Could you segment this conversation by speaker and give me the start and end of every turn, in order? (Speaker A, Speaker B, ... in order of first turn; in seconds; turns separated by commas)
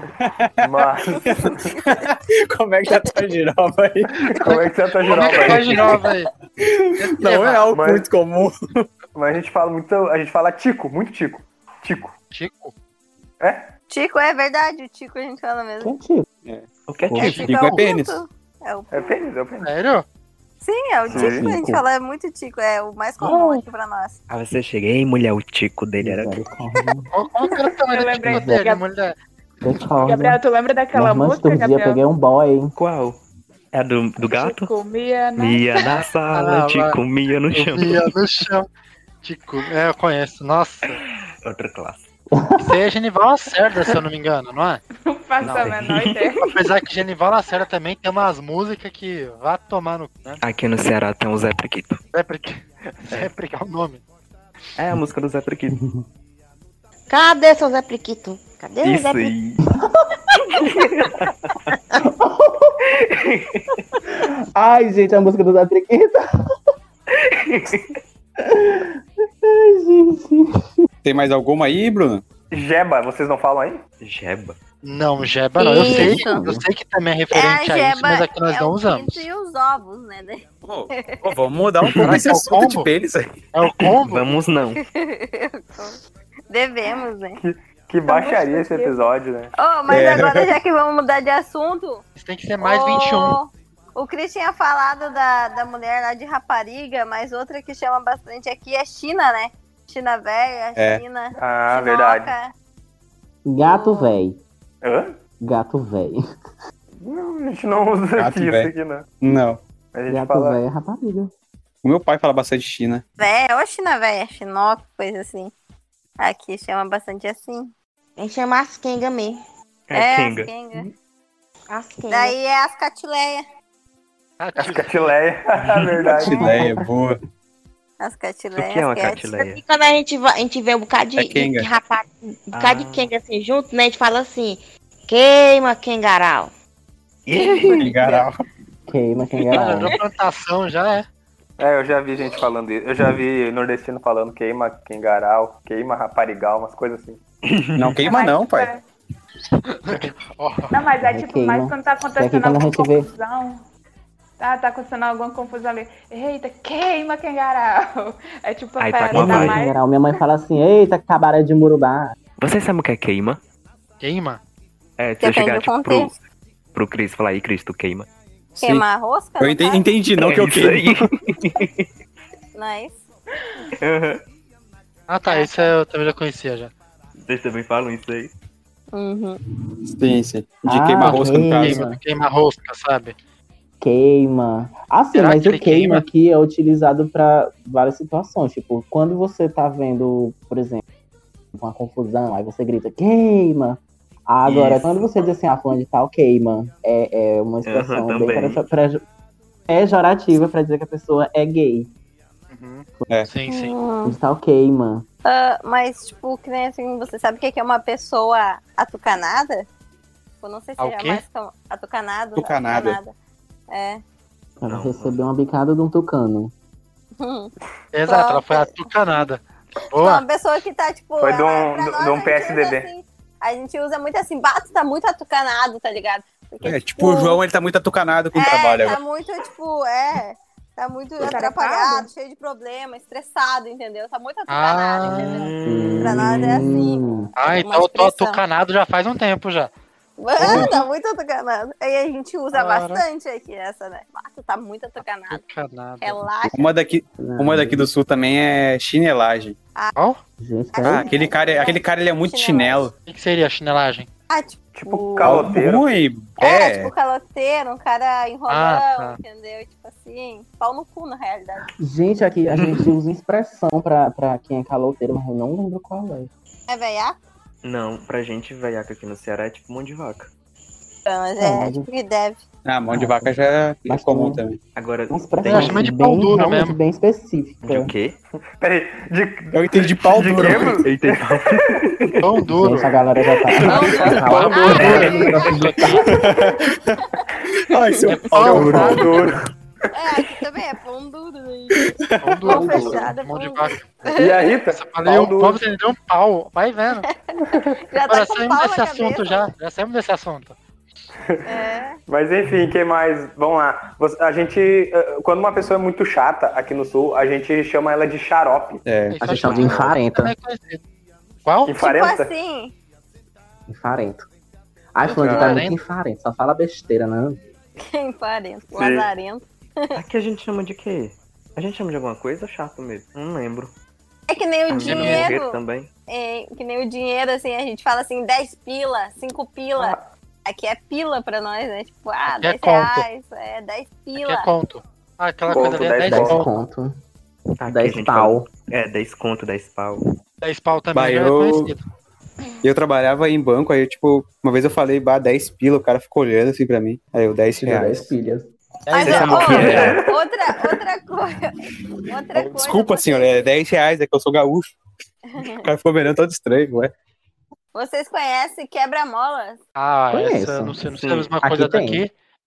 Speaker A: 0.2-4.3, Speaker B: 0.6-1.7, Speaker C: 1.7-2.0, Speaker B: 4.3-6.0, Speaker D: 4.5-6.3, Speaker A: 5.4-5.9, Speaker A: 6.6-8.9, Speaker D: 7.0-7.7, Speaker B: 7.7-8.1, Speaker B: 9.2-12.2, Speaker D: 12.3-12.7, Speaker B: 13.4-13.7, Speaker C: 13.9-15.9, Speaker E: 15.8-16.3, Speaker F: 16.9-17.4, Speaker E: 17.0-17.4, Speaker D: 17.2-17.8, Speaker C: 17.3-19.2, Speaker A: 17.4-18.2, Speaker B: 18.9-19.7, Speaker D: 19.6-20.1, Speaker C: 20.6-24.2, Speaker B: 21.1-21.5, Speaker E: 21.1-21.8, Speaker E: 23.2-23.6, Speaker F: 24.3-26.4, Speaker E: 26.0-27.1, Speaker D: 27.1-29.2, Speaker G: 27.9-28.8, Speaker E: 28.3-28.6, Speaker E: 29.6-30.4, Speaker G: 30.0-32.0, Speaker E: 30.9-32.7, Speaker F: 32.8-33.2, Speaker F: 33.7-34.7, Speaker G: 34.2-36.0, Speaker F: 35.4-38.1, Speaker D: 36.3-37.0, Speaker D: 37.5-38.7, Speaker D: 39.2-41.0, Speaker F: 41.4-42.0, Speaker E: 42.3-42.8, Speaker D: 42.6-44.8, Speaker G: 45.0-46.4, Speaker F: 45.4-46.3, Speaker D: 45.4-45.8, Speaker D: 46.4-50.4, Speaker F: 50.4-52.0, Speaker D: 52.1-54.0, Speaker F: 54.8-55.8, Speaker H: 57.1-59.3, Speaker F: 58.8-59.6, Speaker E: 59.7-60.3, Speaker F: 60.6-61.6, Speaker E: 62.0-62.8, Speaker F: 62.9-63.8, Speaker E: 64.1-66.2, Speaker F: 67.1-68.0, Speaker E: 68.4-70.7, Speaker A: 71.0-72.2, Speaker B: 72.5-73.8, Speaker F: 74.0-74.6, Speaker D: 74.8-79.3, Speaker C: 75.6-76.5, Speaker E: 75.7-76.6, Speaker C: 77.3-81.4, Speaker A: 80.6-83.4, Speaker F: 81.8-82.2, Speaker D: 82.0-82.9, Speaker D: 83.5-84.4, Speaker F: 83.8-84.8, Speaker C: 84.7-87.4, Speaker B: 87.4-89.5, Speaker G: 88.1-89.0, Speaker C: 89.5-92.0, Speaker A: 89.9-90.5, Speaker D: 92.2-93.4, Speaker C: 92.6-102.5, Speaker A: 100.8-101.0, Speaker B: 101.4-102.3, Speaker E: 103.5-104.4, Speaker C: 103.6-104.2, Speaker B: 104.8-105.2, Speaker E: 105.4-106.2, Speaker B: 107.0-109.1, Speaker A: 108.2-109.6, Speaker B: 109.9-110.6, Speaker E: 110.1-111.3, Speaker A: 111.8-113.0, Speaker C: 113.2-115.5, Speaker C: 116.2-117.7, Speaker H: 118.2-119.4, Speaker F: 119.9-120.5, Speaker C: 119.9-120.9, Speaker H: 121.7-122.4, Speaker C: 122.1-123.4, Speaker D: 124.4-125.1, Speaker B: 124.6-126.8, Speaker A: 126.1-127.2, Speaker E: 126.2-126.8, Speaker C: 128.0-129.2, Speaker F: 128.6-129.6, Speaker H: 129.3-136.5, Speaker A: 131.2-131.7, Speaker F: 132.5-133.1, Speaker F: 137.3-137.9, Speaker C: 137.3-138.2, Speaker A: 137.8-138.4, Speaker E: 138.9-140.0, Speaker D: 139.5-141.1, Speaker B: 141.6-147.2, Speaker F: 147.5-148.0, Speaker A: 147.8-148.7, Speaker G: 148.1-148.8, Speaker D: 149.8-150.8, Speaker G: 150.7-153.7, Speaker E: 151.0-153.1, Speaker G: 154.4-159.8, Speaker F: 158.8-159.6, Speaker E: 159.1-162.1, Speaker F: 162.4-163.4, Speaker D: 164.0-164.4, Speaker F: 165.0-166.2, Speaker C: 165.2-166.1, Speaker F: 166.7-168.1, Speaker A: 168.6-168.9, Speaker C: 168.6-169.9, Speaker A: 169.4-171.1, Speaker F: 170.2-171.9, Speaker C: 172.6-173.0, Speaker F: 173.8-174.2, Speaker D: 175.1-176.7, Speaker C: 175.3-175.7, Speaker F: 177.2-178.3, Speaker C: 178.9-179.4, Speaker A: 179.9-181.9, Speaker E: 180.7-182.0, Speaker D: 181.0-183.2, Speaker E: 183.8-190.8, Speaker D: 185.2-186.1, Speaker E: 191.5-199.0, Speaker F: 194.4-195.1, Speaker F: 197.7-198.6, Speaker E: 199.7-201.9, Speaker D: 202.5-203.7, Speaker C: 203.5-204.2, Speaker E: 204.1-205.1, Speaker C: 205.2-209.7, Speaker C: 210.4-213.1, Speaker D: 210.8-211.2, Speaker A: 212.3-213.0, Speaker C: 213.7-214.0, Speaker E: 214.6-216.5, Speaker F: 214.7-215.2, Speaker C: 217.2-217.5, Speaker D: 217.9-220.2, Speaker C: 218.1-218.9, Speaker C: 219.8-227.4, Speaker B: 221.2-222.9, Speaker A: 226.6-229.0, Speaker C: 228.3-238.4, Speaker G: 231.3-231.9, Speaker D: 234.5-235.5, Speaker F: 235.2-236.7, Speaker E: 235.7-237.3, Speaker D: 237.4-239.7, Speaker C: 240.2-245.4, Speaker D: 240.4-240.8, Speaker D: 242.5-243.0, Speaker D: 245.1-246.2, Speaker C: 246.0-246.7, Speaker A: 246.5-249.6, Speaker E: 247.2-247.9, Speaker E: 250.4-251.3, Speaker C: 250.7-252.9, Speaker A: 250.8-252.9, Speaker D: 253.1-254.1, Speaker C: 254.3-255.5, Speaker B: 254.7-256.0, Speaker A: 255.2-256.9, Speaker C: 256.4-261.7, Speaker D: 258.5-259.2, Speaker E: 261.8-266.3, Speaker F: 262.5-262.9, Speaker C: 266.7-267.2, Speaker F: 267.6-270.3, Speaker C: 271.1-272.4, Speaker E: 271.4-271.9, Speaker A: 272.7-274.6, Speaker E: 272.9-273.4, Speaker E: 273.9-274.4, Speaker F: 274.8-275.9, Speaker E: 275.1-277.9, Speaker D: 275.5-276.8, Speaker F: 277.6-278.2, Speaker B: 278.6-281.8, Speaker A: 279.5-280.9, Speaker F: 280.8-282.2, Speaker D: 282.2-282.9, Speaker E: 282.6-286.1, Speaker C: 283.6-285.7, Speaker B: 283.7-284.2, Speaker D: 283.9-286.0, Speaker B: 284.7-285.1, Speaker A: 286.0-287.0, Speaker A: 287.5-289.3, Speaker D: 288.1-289.1, Speaker B: 288.4-289.4, Speaker E: 288.5-289.0, Speaker C: 289.9-294.6, Speaker A: 291.9-292.4, Speaker D: 292.2-294.1, Speaker E: 292.5-293.1, Speaker B: 292.5-293.0, Speaker B: 294.2-295.6, Speaker D: 294.7-297.1, Speaker C: 297.0-299.5, Speaker B: 297.5-297.8, Speaker D: 298.1-300.6, Speaker B: 301.3-308.8, Speaker C: 301.5-302.0, Speaker A: 308.9-309.9, Speaker D: 309.1-310.8, Speaker E: 309.2-310.4, Speaker D: 311.4-311.8, Speaker B: 311.7-312.3, Speaker C: 311.8-312.8, Speaker E: 313.7-314.3, Speaker E: 314.9-317.4, Speaker D: 315.1-315.8, Speaker A: 315.3-315.6, Speaker C: 317.8-320.0, Speaker B: 318.7-319.1, Speaker F: 319.9-323.7, Speaker C: 324.3-334.5, Speaker F: 324.7-325.9, Speaker D: 324.9-325.3, Speaker B: 329.8-330.1, Speaker D: 332.3-333.1, Speaker D: 334.1-336.5, Speaker B: 335.5-336.4, Speaker E: 336.1-337.0, Speaker F: 337.6-340.0, Speaker E: 337.6-338.5, Speaker D: 340.4-341.8, Speaker A: 340.9-341.8, Speaker A: 342.6-348.1, Speaker E: 347.6-348.5, Speaker D: 348.9-350.0, Speaker C: 348.9-351.6, Speaker A: 349.0-350.0, Speaker F: 349.1-349.9, Speaker B: 349.2-350.3, Speaker C: 352.1-353.5, Speaker A: 352.3-354.8, Speaker C: 355.3-355.7, Speaker A: 355.6-356.9, Speaker C: 357.7-359.6, Speaker D: 359.8-362.1, Speaker E: 360.1-360.8, Speaker F: 361.0-361.3, Speaker E: 361.4-362.0